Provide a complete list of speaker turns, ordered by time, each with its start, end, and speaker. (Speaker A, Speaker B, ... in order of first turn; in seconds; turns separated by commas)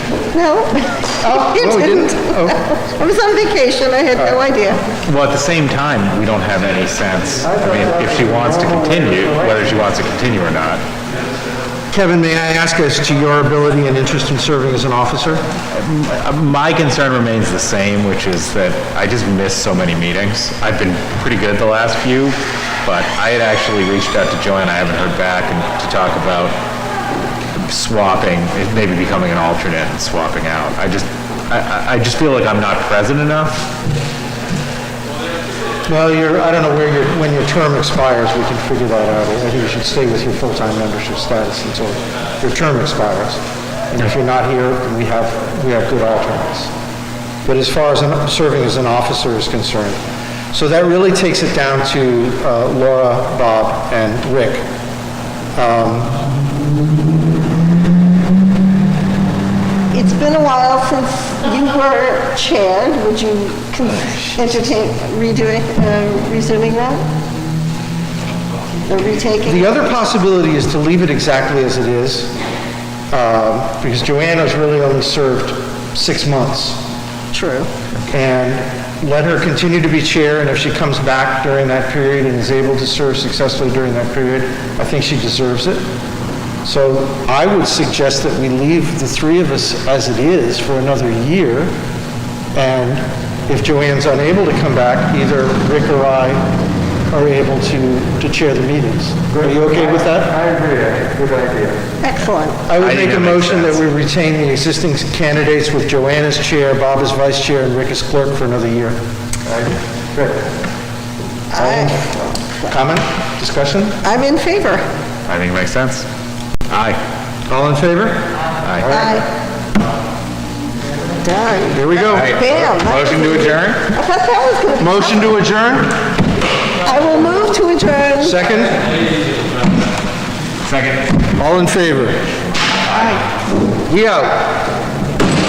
Speaker A: 0.3-4.8, Speaker B: 1.2-2.7, Speaker C: 5.0-10.8, Speaker D: 8.0-8.4, Speaker B: 11.9-15.4, Speaker C: 15.7-26.5, Speaker C: 27.7-33.6, Speaker B: 35.9-46.7, Speaker B: 47.4-50.0, Speaker B: 50.5-54.6, Speaker B: 55.5-56.2, Speaker A: 59.9-67.0, Speaker A: 68.9-69.8, Speaker B: 69.4-72.3, Speaker B: 73.1-76.8, Speaker A: 77.3-77.7, Speaker B: 78.1-85.8, Speaker B: 86.6-91.7, Speaker B: 92.5-96.4, Speaker B: 97.1-100.4, Speaker D: 100.3-101.8, Speaker A: 102.0-102.6, Speaker B: 102.7-109.0, Speaker C: 102.8-103.8, Speaker A: 111.5-112.7, Speaker B: 111.5-112.1, Speaker B: 112.7-114.0, Speaker A: 114.0-114.8, Speaker C: 115.3-116.1, Speaker C: 116.7-117.0, Speaker B: 117.5-118.3, Speaker C: 118.6-118.9, Speaker A: 118.8-119.3, Speaker A: 121.2-125.4, Speaker B: 121.7-122.3, Speaker C: 122.1-123.9, Speaker B: 124.8-126.0, Speaker A: 126.8-128.4, Speaker B: 128.2-128.8, Speaker C: 130.6-131.2, Speaker B: 131.3-132.2, Speaker A: 132.9-133.2, Speaker B: 133.9-134.6